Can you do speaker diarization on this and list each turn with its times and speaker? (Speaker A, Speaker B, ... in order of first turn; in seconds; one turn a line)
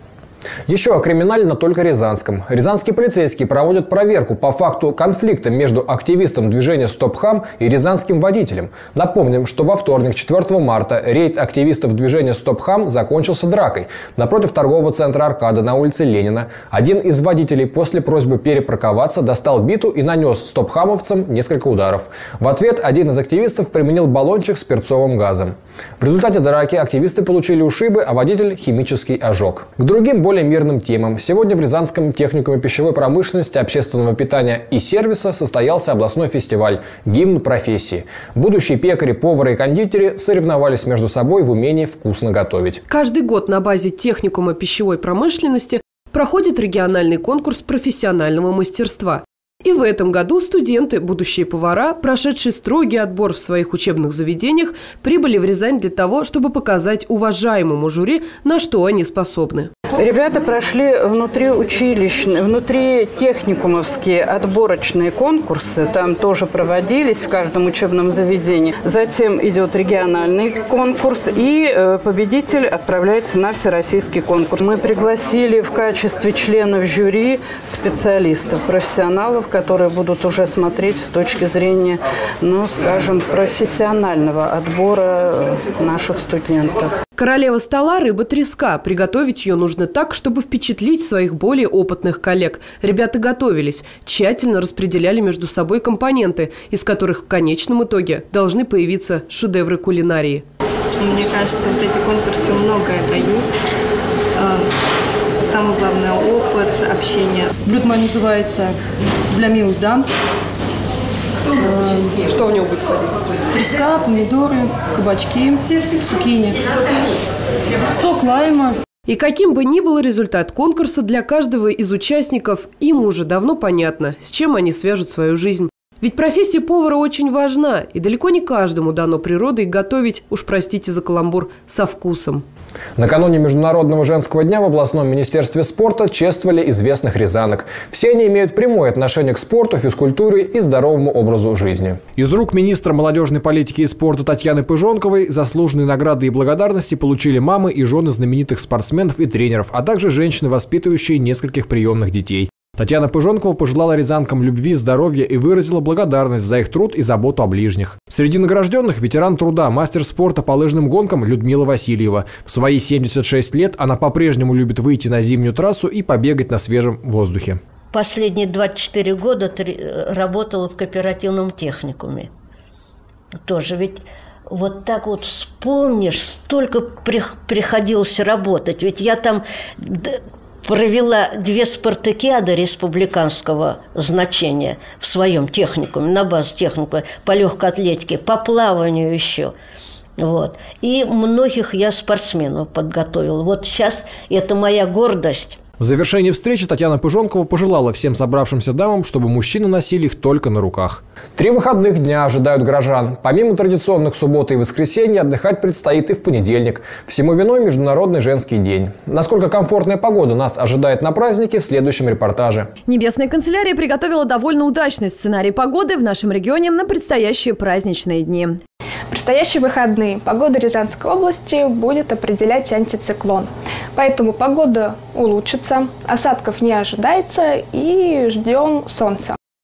Speaker A: 0.7-42.8
Speaker B: 42.9-59.7
Speaker C: 60.0-87.0
Speaker B: 87.2-100.4
Speaker D: 101.0-103.5
Speaker D: 104.4-104.7
Speaker D: 105.4-107.5
Speaker E: 107.6-108.8
Speaker E: 109.3-110.1
Speaker E: 111.6-112.1
Speaker B: 112.5-112.8
Speaker E: 113.5-116.6
Speaker E: 117.9-118.8
Speaker B: 119.1-132.4
Speaker A: 133.0-167.6
Speaker F: 167.9-172.3
Speaker F: 173.5-189.5
Speaker F: 190.2-195.6
Speaker A: 195.8-212.7
Speaker G: 212.9-218.6
Speaker H: 219.1-229.4